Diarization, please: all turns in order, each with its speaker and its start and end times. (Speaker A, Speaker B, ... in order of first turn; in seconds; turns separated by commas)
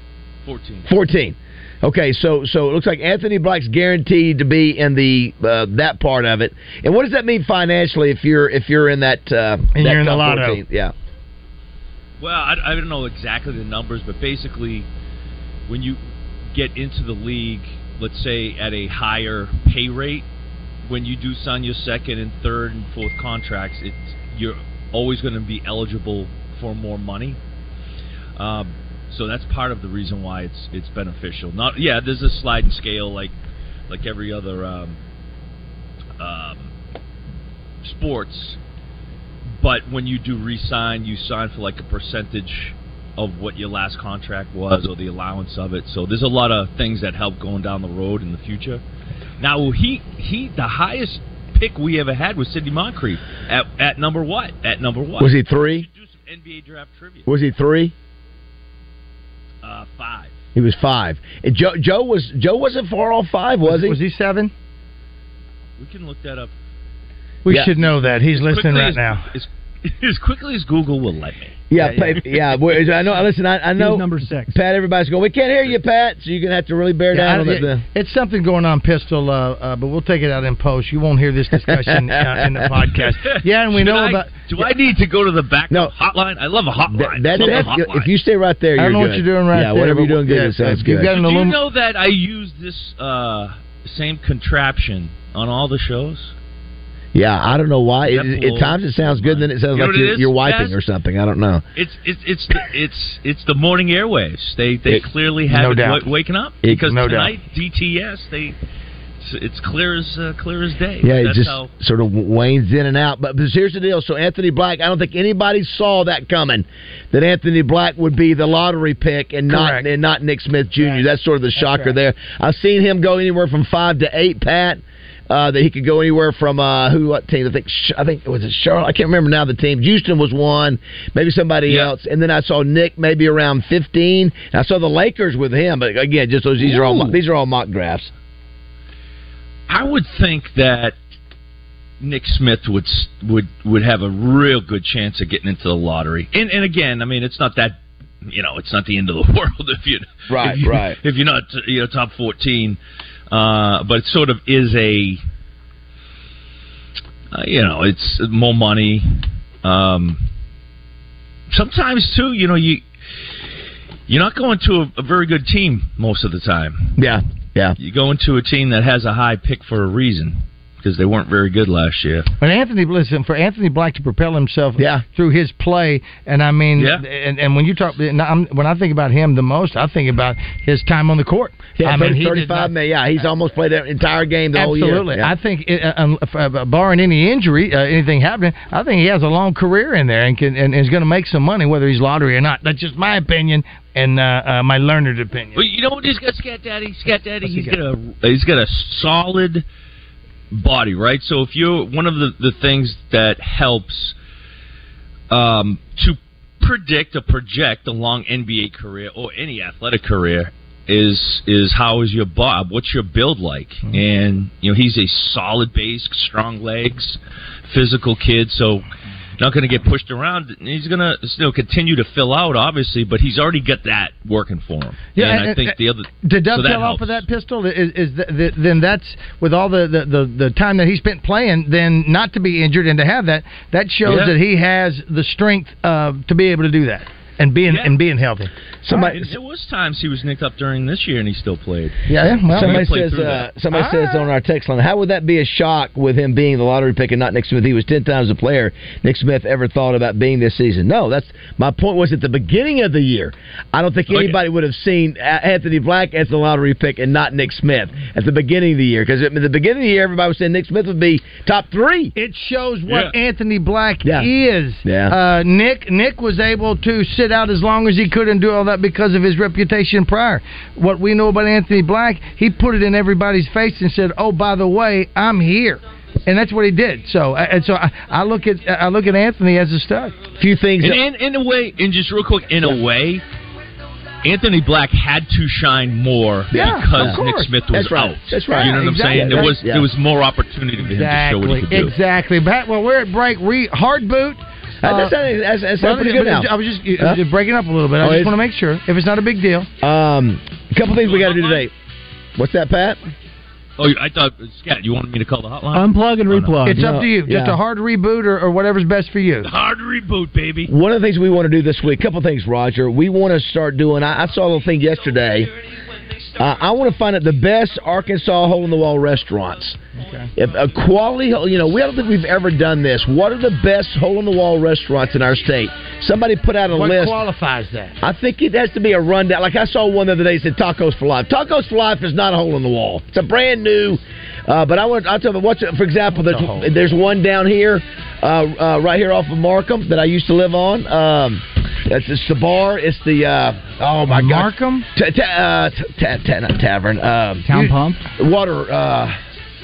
Speaker A: 0.4-0.9, Speaker B: 0.8-10.9, Speaker C: 9.7-10.6, Speaker A: 12.2-14.9, Speaker A: 15.7-16.0, Speaker A: 16.5-20.2, Speaker A: 20.8-27.4, Speaker A: 28.4-33.3, Speaker A: 33.9-35.0, Speaker A: 36.2-36.7, Speaker A: 37.8-38.6, Speaker A: 39.6-48.8, Speaker A: 49.4-57.3, Speaker B: 55.2-55.9, Speaker B: 57.2-57.9, Speaker A: 59.6-60.4, Speaker B: 60.5-64.0, Speaker C: 63.6-64.5, Speaker A: 65.8-66.5, Speaker C: 67.4-69.3, Speaker A: 67.7-72.3, Speaker B: 71.7-77.8, Speaker C: 71.8-72.2, Speaker D: 73.8-74.6, Speaker C: 77.1-84.5, Speaker B: 81.7-82.7, Speaker A: 83.0-88.1, Speaker B: 86.9-91.1, Speaker C: 87.3-87.7, Speaker C: 88.8-91.6, Speaker A: 91.0-96.3, Speaker B: 97.1-101.6, Speaker A: 98.0-100.8, Speaker A: 101.8-108.5, Speaker C: 105.5-106.0, Speaker C: 106.7-107.3, Speaker A: 109.2-111.7, Speaker B: 111.0-138.1, Speaker C: 119.5-119.8, Speaker C: 121.6-121.9, Speaker A: 131.7-131.9, Speaker A: 136.6-137.2, Speaker A: 139.7-140.9, Speaker A: 142.0-152.8, Speaker B: 150.3-151.0, Speaker A: 153.3-155.2, Speaker A: 157.3-159.1, Speaker A: 159.6-160.2, Speaker A: 161.5-162.8, Speaker A: 164.1-167.0, Speaker B: 167.0-167.8, Speaker A: 167.8-172.3, Speaker C: 172.4-182.7, Speaker B: 174.8-175.0, Speaker A: 176.8-177.0, Speaker B: 181.8-185.3, Speaker C: 184.6-195.6, Speaker A: 195.5-199.6, Speaker C: 197.4-197.8, Speaker A: 200.5-204.1, Speaker A: 205.3-218.9, Speaker A: 219.4-227.2, Speaker C: 225.1-238.5, Speaker A: 234.0-234.3, Speaker A: 237.7-238.0, Speaker B: 238.8-239.3, Speaker A: 238.9-243.5, Speaker C: 242.1-242.9, Speaker B: 242.5-262.1, Speaker C: 243.7-244.2, Speaker A: 254.1-254.4, Speaker C: 262.1-280.2, Speaker A: 262.9-263.1, Speaker B: 264.0-264.3, Speaker B: 264.8-265.1, Speaker B: 280.4-281.0, Speaker A: 280.8-283.2, Speaker A: 284.2-292.0, Speaker C: 286.5-287.6, Speaker B: 286.5-289.9, Speaker C: 288.5-289.6, Speaker C: 290.8-295.1, Speaker B: 294.8-297.2, Speaker C: 295.8-299.7, Speaker B: 298.0-298.4, Speaker B: 299.8-301.7, Speaker A: 301.0-301.7, Speaker B: 302.4-303.0, Speaker A: 303.8-306.7, Speaker D: 305.7-306.9, Speaker C: 306.6-309.5, Speaker B: 306.7-307.6, Speaker A: 309.4-310.7, Speaker B: 310.7-315.5, Speaker B: 316.4-319.8, Speaker C: 320.0-320.3, Speaker B: 320.3-327.2, Speaker C: 326.7-327.9, Speaker B: 328.0-347.5, Speaker C: 336.1-336.7, Speaker C: 344.1-344.9, Speaker D: 347.5-348.0, Speaker B: 348.2-349.2